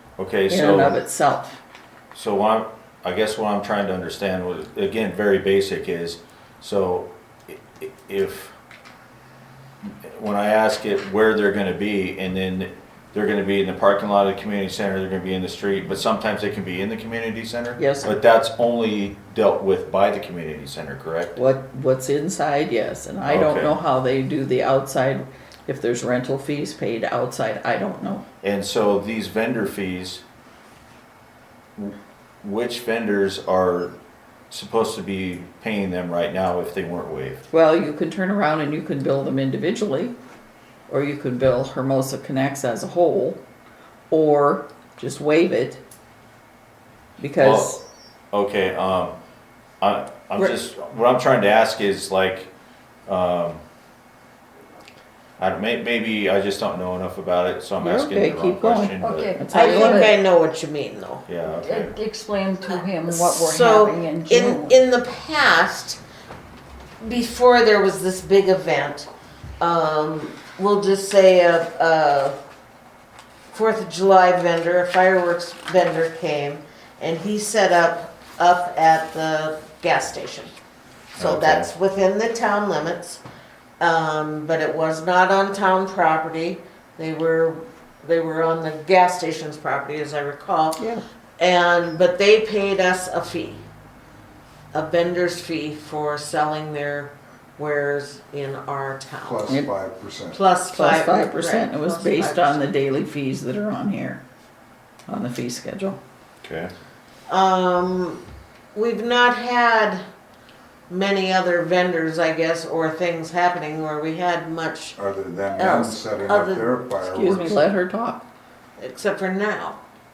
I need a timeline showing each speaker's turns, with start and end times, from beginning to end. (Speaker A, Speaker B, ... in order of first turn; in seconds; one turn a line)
Speaker A: 0.2-1.0
Speaker B: 0.5-1.6
Speaker A: 2.1-8.5
Speaker A: 9.8-21.4
Speaker B: 17.8-18.1
Speaker B: 21.3-28.2
Speaker A: 23.3-23.8
Speaker A: 28.4-30.2
Speaker A: 31.8-33.9
Speaker A: 34.5-37.4
Speaker B: 37.5-40.1
Speaker B: 40.9-43.4
Speaker B: 44.1-45.8
Speaker B: 47.2-47.8
Speaker A: 47.4-47.8
Speaker A: 48.3-49.1
Speaker A: 49.8-52.5
Speaker A: 53.1-53.6
Speaker A: 55.4-59.4
Speaker B: 57.8-60.1
Speaker C: 59.0-60.1
Speaker D: 59.5-61.2
Speaker A: 61.3-62.0
Speaker C: 61.5-64.8
Speaker D: 62.7-66.0
Speaker D: 67.0-69.1
Speaker D: 69.6-72.4
Speaker D: 73.5-80.5
Speaker A: 81.2-81.7
Speaker D: 81.2-83.2
Speaker D: 83.8-90.8
Speaker D: 91.4-93.6
Speaker D: 94.7-99.5
Speaker E: 99.2-100.4
Speaker D: 100.3-102.6
Speaker B: 100.7-104.2
Speaker B: 105.1-106.0
Speaker A: 106.4-106.7
Speaker D: 107.3-108.2
Speaker D: 108.7-110.0
Speaker D: 110.9-115.0
Speaker E: 115.0-117.7
Speaker D: 115.6-116.8
Speaker B: 117.0-118.2
Speaker D: 118.8-119.8